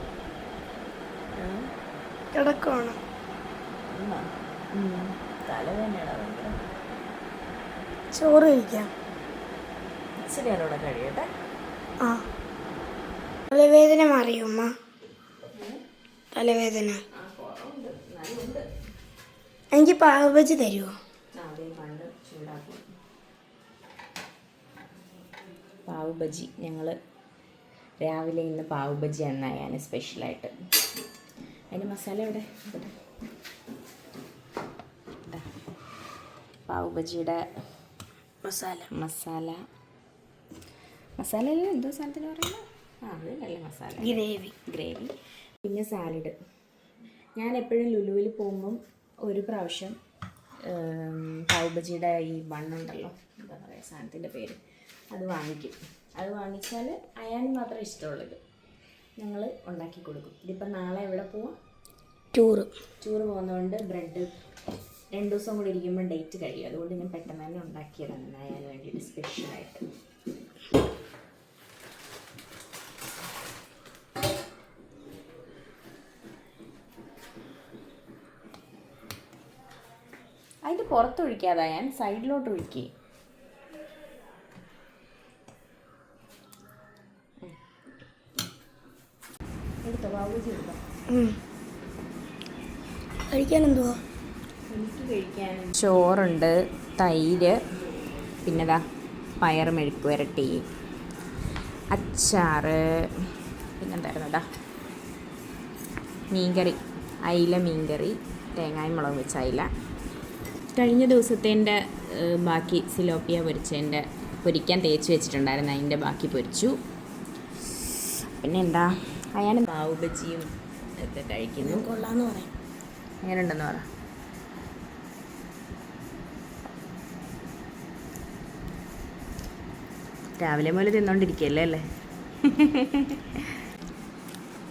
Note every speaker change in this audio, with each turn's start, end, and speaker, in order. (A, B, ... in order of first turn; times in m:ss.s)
0:01.4-0:01.6 A
0:02.3-0:03.0 B
0:03.9-0:06.6 A
0:08.1-0:08.9 B
0:10.2-0:11.3 A
0:13.5-0:14.7 B
0:15.5-0:15.8 A
0:16.3-0:17.0 B
0:17.1-0:18.6 A
0:19.7-0:20.9 B
0:21.4-0:22.8 A
0:25.9-0:26.9 A
0:28.0-0:30.5 A
0:31.7-0:32.9 A
0:36.7-0:37.4 A
0:38.4-0:38.9 B
0:38.9-0:39.6 A
0:41.2-0:46.3 A
0:44.0-0:44.5 B
0:47.4-0:49.9 A
0:50.7-0:54.6 A
0:55.1-0:58.4 A
0:59.2-1:01.5 A
1:02.3-1:02.7 B
1:03.0-1:04.3 A
1:05.1-1:09.8 A
1:20.6-1:22.9 A
1:29.8-1:30.8 A
1:31.1-1:31.4 B
1:33.3-1:34.0 B
1:34.7-1:37.6 A
1:38.4-1:38.8 A
1:39.4-1:40.6 A
1:41.9-1:44.4 A
1:46.3-1:49.7 A
1:50.7-1:56.7 A
1:57.8-2:01.9 A
2:01.6-2:02.5 B
2:03.2-2:03.8 A
2:10.4-2:11.8 A
2:12.4-2:13.4 A